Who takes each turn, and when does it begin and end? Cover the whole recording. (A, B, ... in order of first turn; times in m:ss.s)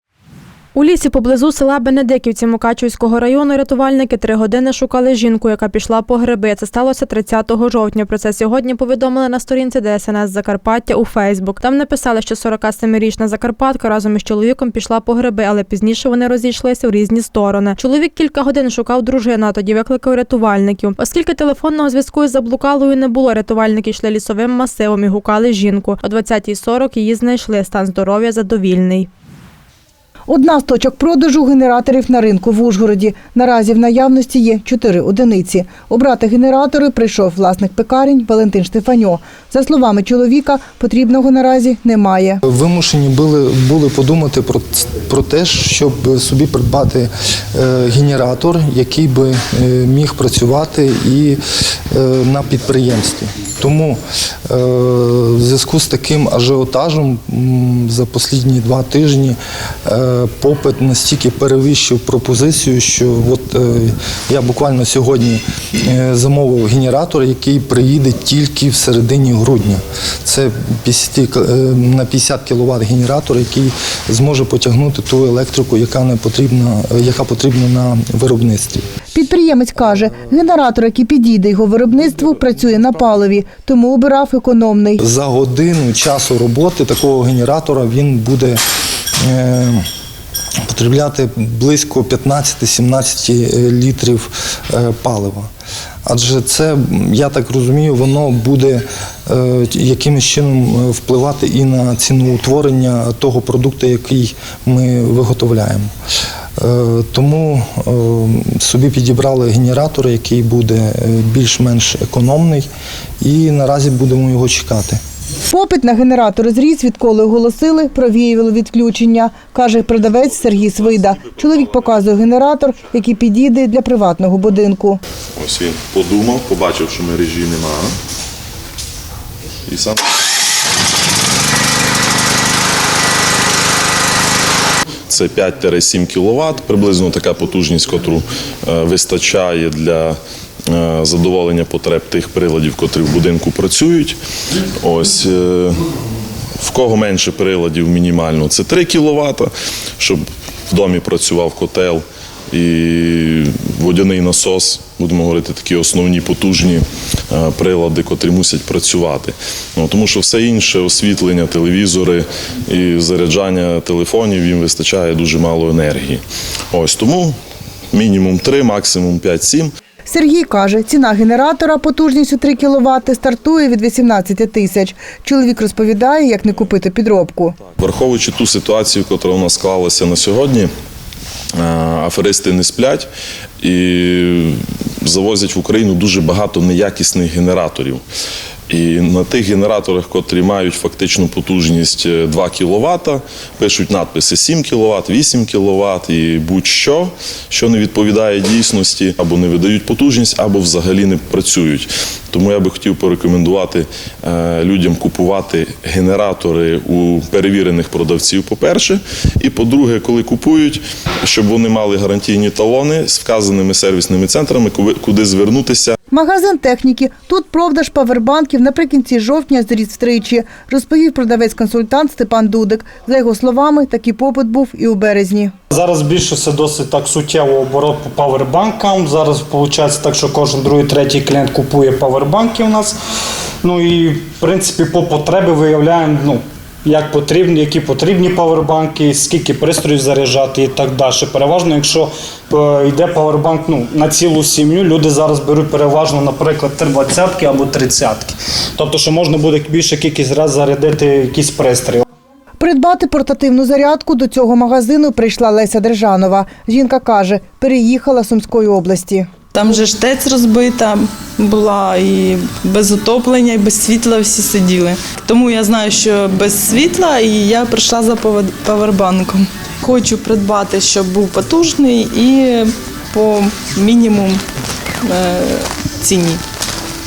0:00.8-0:29.1 A
0:30.3-0:42.4 B
0:42.4-0:51.4 C
0:51.9-1:18.8 C
1:19.1-1:25.0 B
1:25.0-1:28.6 C
1:29.2-1:29.9 C
1:30.6-1:35.5 C
1:36.1-1:45.9 C
1:46.6-1:52.7 C
1:53.2-1:55.0 C
1:55.5-2:05.0 B
2:05.4-2:08.0 D
2:09.7-2:10.0 D
2:15.1-2:20.2 D
2:20.7-2:24.2 D
2:24.8-2:25.9 D
2:26.6-2:47.4 D
2:47.9-2:49.7 D
2:50.1-2:57.6 B
2:57.8-3:00.7 D
3:01.6-3:03.1 D
3:03.6-3:08.0 D
3:08.7-3:36.0 D
3:36.1-3:45.5 B
3:45.7-3:53.0 E
3:53.6-4:12.0 E
4:12.6-4:19.3 B
4:19.5-4:34.4 F
4:35.0-4:36.4 F